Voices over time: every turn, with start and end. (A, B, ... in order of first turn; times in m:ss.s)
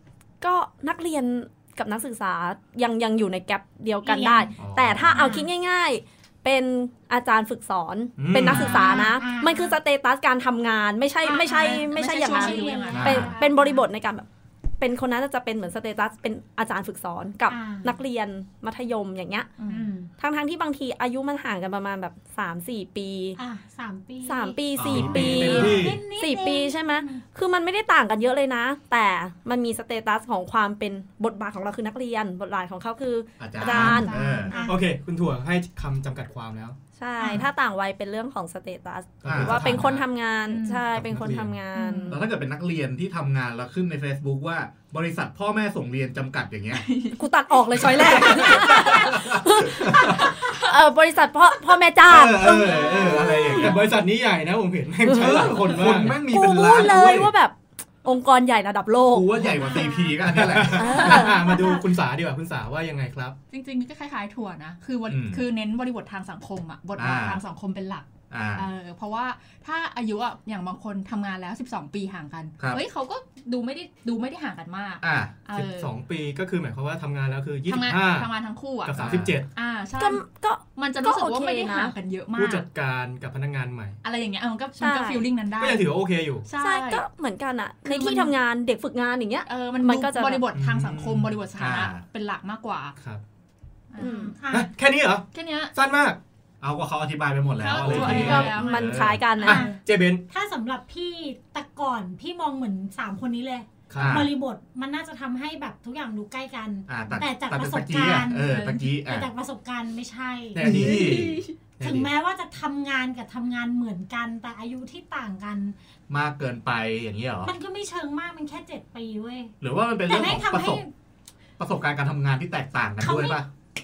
0:00.4-0:14.3 A
0:04.0-0:04.6 B
0:04.6-0:05.2 C
0:05.1-0:05.5 B
0:08.2-0:08.8 D
0:08.5-0:08.8 C
0:08.5-0:09.8 B
0:11.2-0:13.9 B
0:11.6-0:13.3 E
0:12.9-0:13.3 C
0:14.8-0:19.5 A
0:17.5-0:18.0 B
0:19.6-0:19.9 E
0:19.7-0:20.1 B
0:20.2-0:23.4 A
0:23.4-0:27.2 B
0:24.2-0:34.2 A
0:24.8-0:25.8 C
0:24.9-0:26.0 D
0:33.4-0:34.5 C
0:33.7-0:34.7 E
0:33.8-0:34.8 B
0:34.6-0:36.8 D
0:37.0-0:42.2 A
0:37.2-0:37.5 B
0:39.2-0:40.0 D
0:39.2-0:40.0 C
0:40.5-0:40.8 E
0:40.9-0:41.5 D
0:41.8-0:42.2 B
0:42.1-0:46.9 C
0:46.8-0:47.2 E
0:47.2-0:53.8 A
0:47.8-0:48.7 E
0:48.2-0:50.4 C
0:50.3-0:50.7 E
0:52.1-0:53.8 C
0:53.6-0:56.2 D
0:55.1-0:55.6 A
0:55.1-0:57.3 C
0:56.2-0:59.4 A
0:59.1-1:01.0 C
0:59.4-1:00.2 B
1:00.2-1:03.4 D
1:00.8-1:01.6 A
1:01.0-1:01.8 B
1:03.5-1:15.9 E
1:05.1-1:05.4 C
1:07.0-1:07.4 C
1:08.3-1:08.7 C
1:15.0-1:15.3 C
1:15.5-1:18.3 D
1:17.7-1:20.2 E
1:18.8-1:19.5 D
1:19.0-1:19.4 C
1:20.0-1:21.9 A
1:20.8-1:22.7 E
1:22.4-1:24.0 D
1:24.0-1:25.9 E
1:24.8-1:25.2 A
1:25.6-1:26.5 D
1:26.4-1:27.0 E
1:26.6-1:30.4 A
1:27.9-1:28.3 E
1:29.5-1:33.0 E
1:30.5-1:31.4 D
1:31.6-1:32.0 C
1:33.9-1:34.2 E
1:34.0-1:34.3 A
1:34.0-1:34.7 B
1:34.5-1:36.2 D
1:35.3-1:35.7 E
1:36.6-1:39.2 C
1:37.6-1:39.8 E
1:37.8-1:38.4 D
1:38.0-1:39.7 A
1:39.4-1:50.6 B
1:39.5-1:40.2 D
1:43.9-1:44.3 D
1:44.0-1:44.3 C
1:46.9-1:49.3 C
1:48.5-1:48.8 E
1:50.6-1:51.4 C
1:50.6-1:52.1 D
1:50.6-1:51.6 E
1:51.8-1:55.8 B
1:56.1-1:57.5 C
1:57.4-2:00.9 B
1:59.6-2:00.8 C
2:01.6-2:03.5 C
2:03.0-2:03.4 B